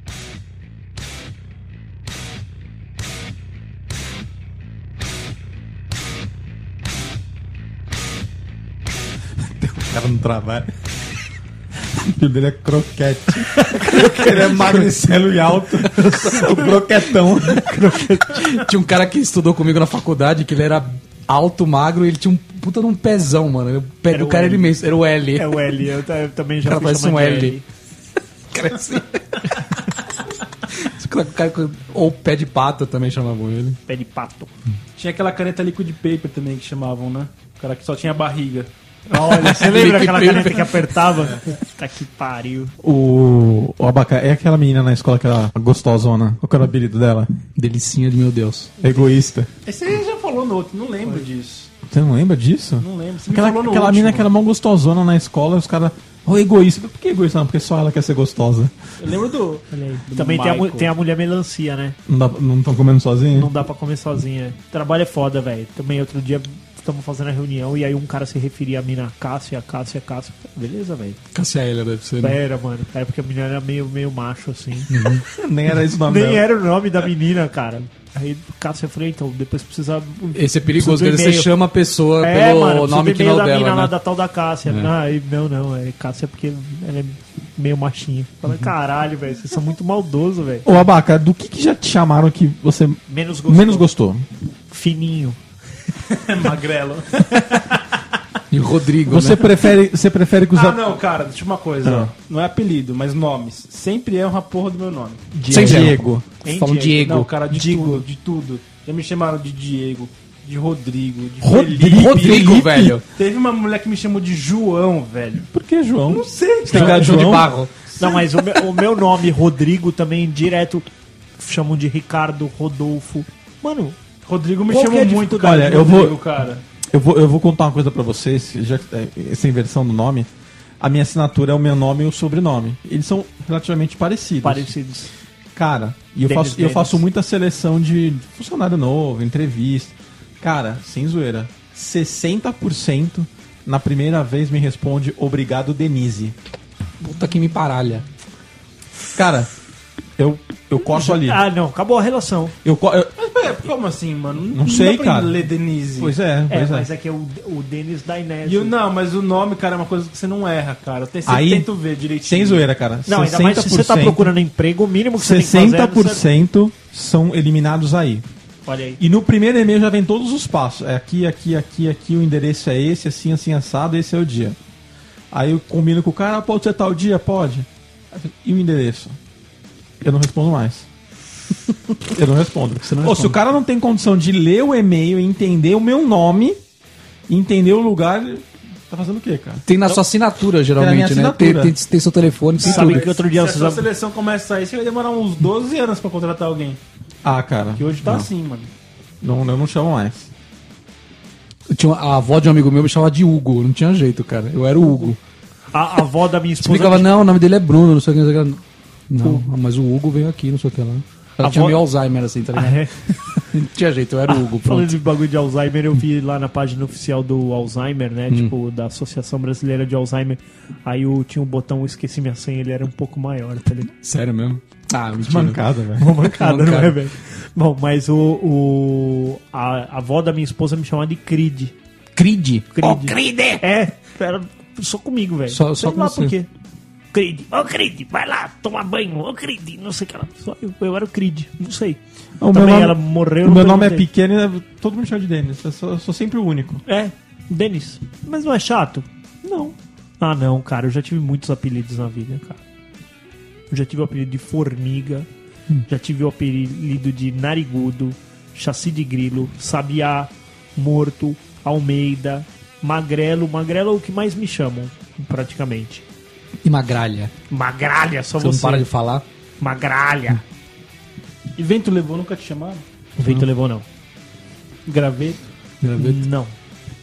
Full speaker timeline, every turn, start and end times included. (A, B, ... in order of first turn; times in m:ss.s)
0:09.6-0:10.7 A
0:12.0-0:17.7 A
0:13.5-0:14.9 B
0:15.8-0:18.6 B
0:18.3-0:25.6 C
0:24.1-0:24.8 B
0:25.3-0:27.6 B
0:26.6-0:27.6 C
0:28.5-0:29.7 C
0:30.7-0:33.8 C
0:33.9-0:34.5 B
0:35.0-0:38.7 D
0:39.1-0:42.7 B
0:39.1-0:40.9 C
0:42.8-0:47.3 A
0:47.6-0:48.7 C
0:48.8-0:49.5 A
0:49.6-0:51.7 D
0:51.9-0:58.7 A
0:52.8-0:54.3 D
0:59.0-1:00.9 D
0:59.7-1:02.0 B
1:02.1-1:03.5 A
1:03.3-1:11.2 B
1:11.3-1:12.4 C
1:12.2-1:14.9 B
1:14.9-1:15.2 C
1:15.3-1:16.5 A
1:16.0-1:21.5 B
1:20.3-1:23.9 C
1:22.2-1:30.7 B
1:30.6-1:34.2 A
1:33.1-1:33.9 B
1:34.7-1:35.4 B
1:36.1-1:37.8 D
1:38.5-1:39.4 C
1:39.0-1:40.8 A
1:40.5-1:45.3 D
1:41.8-1:42.1 A
1:45.3-1:48.0 B
1:45.5-1:46.2 A
1:45.5-1:47.3 C
1:46.9-1:51.8 D
1:51.4-1:53.0 A
1:51.4-1:53.0 C
1:53.1-1:55.5 D
1:55.5-1:57.5 A
1:56.1-1:57.3 D
1:56.7-1:57.7 C
1:57.9-1:58.4 D
1:58.0-2:00.9 B
2:01.4-2:04.0 B
2:04.2-2:06.6 D
2:04.7-2:05.6 B
2:05.4-2:06.2 A
2:06.9-2:10.3 A
2:10.8-2:14.7 A
2:14.4-2:15.1 B
2:15.5-2:26.3 A
2:16.2-2:17.0 B
2:27.0-2:28.0 C
2:29.1-2:29.5 A
2:30.2-2:31.4 A
2:30.8-2:32.6 B
2:32.6-2:33.1 A
2:33.2-2:36.1 D
2:34.5-2:35.3 A
2:36.0-2:36.9 A
2:36.5-2:38.7 B
2:38.4-2:42.6 D
2:41.2-2:41.7 A
2:42.2-2:44.3 A
2:43.1-2:46.2 B
2:45.1-2:48.2 A
2:48.6-2:49.0 B
2:49.0-2:54.6 A
2:55.3-2:59.2 A
3:00.0-3:00.9 A
3:02.1-3:06.6 A
3:02.8-3:03.4 C
3:07.3-3:09.6 A
3:09.7-3:13.1 C
3:10.8-3:11.7 A
3:12.6-3:13.9 B
3:12.6-3:16.8 D
3:17.2-3:18.3 A
3:17.8-3:18.7 D
3:19.2-3:20.3 A
3:21.7-3:25.2 C
3:25.7-3:27.1 B
3:26.6-3:34.9 C
3:29.2-3:29.4 B
3:31.4-3:31.8 B
3:32.5-3:33.4 B
3:34.3-3:43.9 B
3:43.9-3:45.6 C
3:45.2-3:46.1 A
3:46.0-3:51.7 B
3:46.2-3:47.0 C
3:52.2-3:53.6 C
3:52.7-3:56.5 B
3:55.5-3:56.3 C
3:57.1-4:02.0 B
4:02.4-4:06.8 A
4:02.5-4:04.0 B
4:06.8-4:12.6 B
4:13.7-4:15.3 B
4:15.9-4:26.0 B
4:26.6-4:27.3 C
4:27.5-4:28.9 B
4:28.4-4:29.2 C
4:29.6-4:30.4 B
4:31.6-4:32.8 D
4:33.2-4:33.8 B
4:34.9-4:35.4 D
4:35.8-4:36.2 C
4:36.0-4:36.5 B